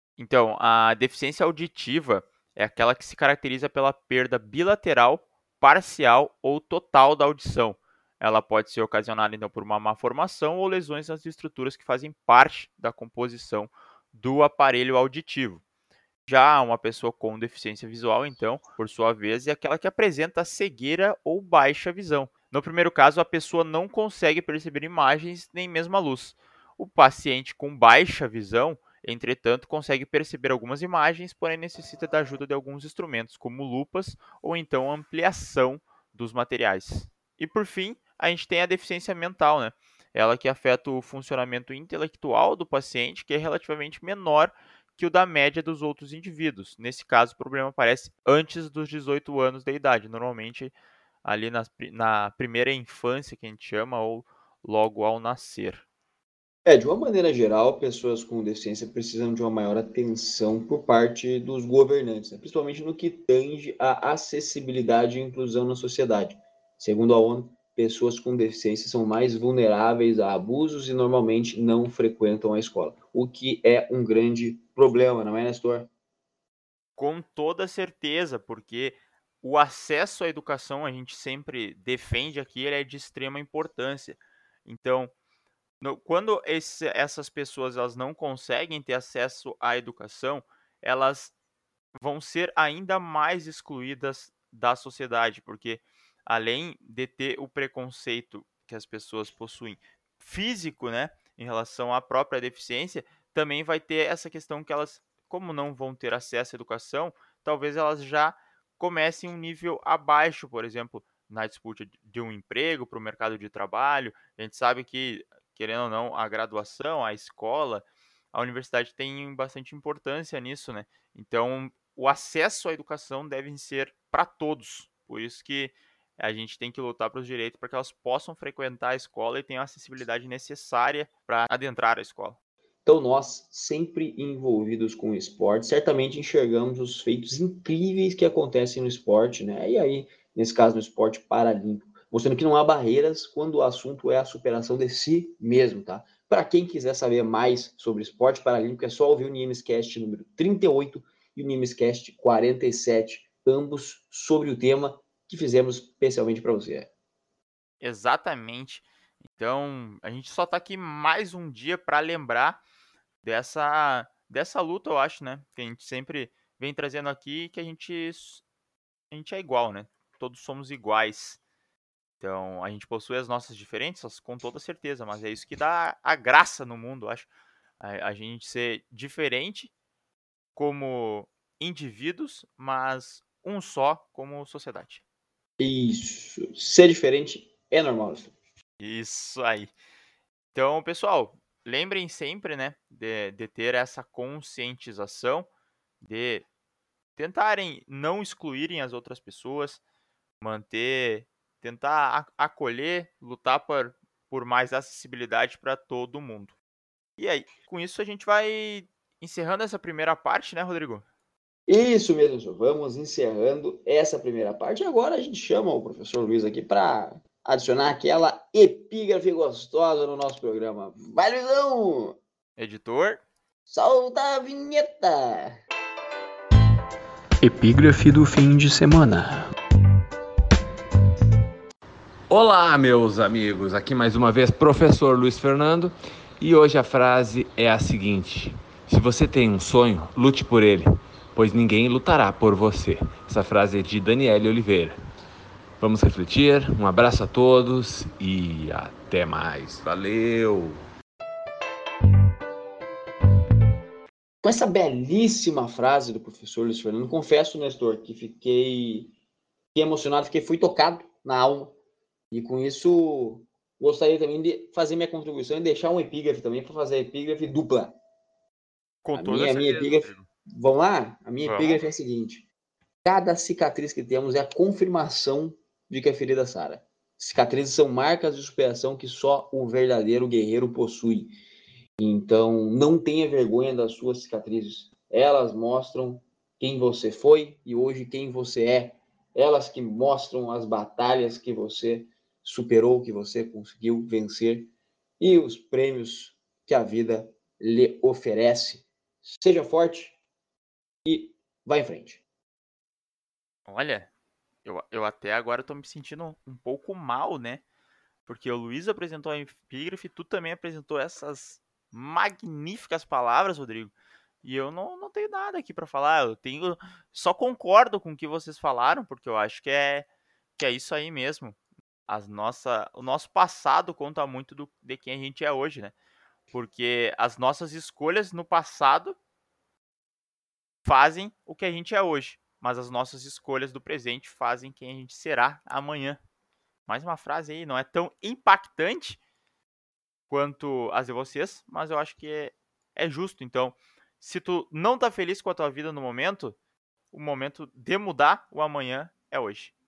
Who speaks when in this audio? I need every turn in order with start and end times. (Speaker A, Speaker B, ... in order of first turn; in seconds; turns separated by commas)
Speaker A: 0.2-15.6, Speaker A: 16.3-50.7, Speaker A: 51.2-55.9, Speaker B: 56.6-75.9, Speaker A: 77.0-85.1, Speaker A: 85.8-91.3, Speaker A: 92.0-132.4, Speaker B: 132.8-156.9, Speaker A: 157.8-162.6, Speaker A: 163.2-168.4, Speaker A: 169.1-171.4, Speaker A: 172.2-177.3, Speaker A: 177.8-179.7, Speaker A: 180.5-185.0, Speaker B: 185.6-188.3, Speaker A: 188.8-189.7, Speaker A: 190.5-195.5, Speaker A: 196.0-196.4, Speaker A: 197.2-199.8, Speaker A: 200.4-206.6, Speaker A: 207.2-211.0, Speaker B: 211.7-222.2, Speaker A: 222.6-223.2, Speaker B: 223.7-225.6, Speaker B: 227.4-229.5, Speaker C: 232.3-245.0, Speaker C: 245.8-250.8, Speaker B: 254.4-259.1, Speaker B: 259.7-261.8, Speaker B: 262.3-267.9, Speaker A: 269.0-270.3, Speaker B: 269.1-272.4, Speaker A: 271.4-271.8, Speaker B: 273.0-281.3, Speaker B: 282.0-300.2, Speaker B: 301.0-302.2, Speaker A: 303.7-304.1, Speaker A: 304.6-307.6, Speaker A: 308.3-313.9, Speaker A: 314.4-320.1, Speaker A: 320.6-321.6, Speaker A: 322.1-325.9, Speaker A: 326.5-329.1, Speaker A: 330.9-336.2, Speaker A: 336.9-339.2, Speaker A: 340.3-346.6, Speaker A: 347.1-349.7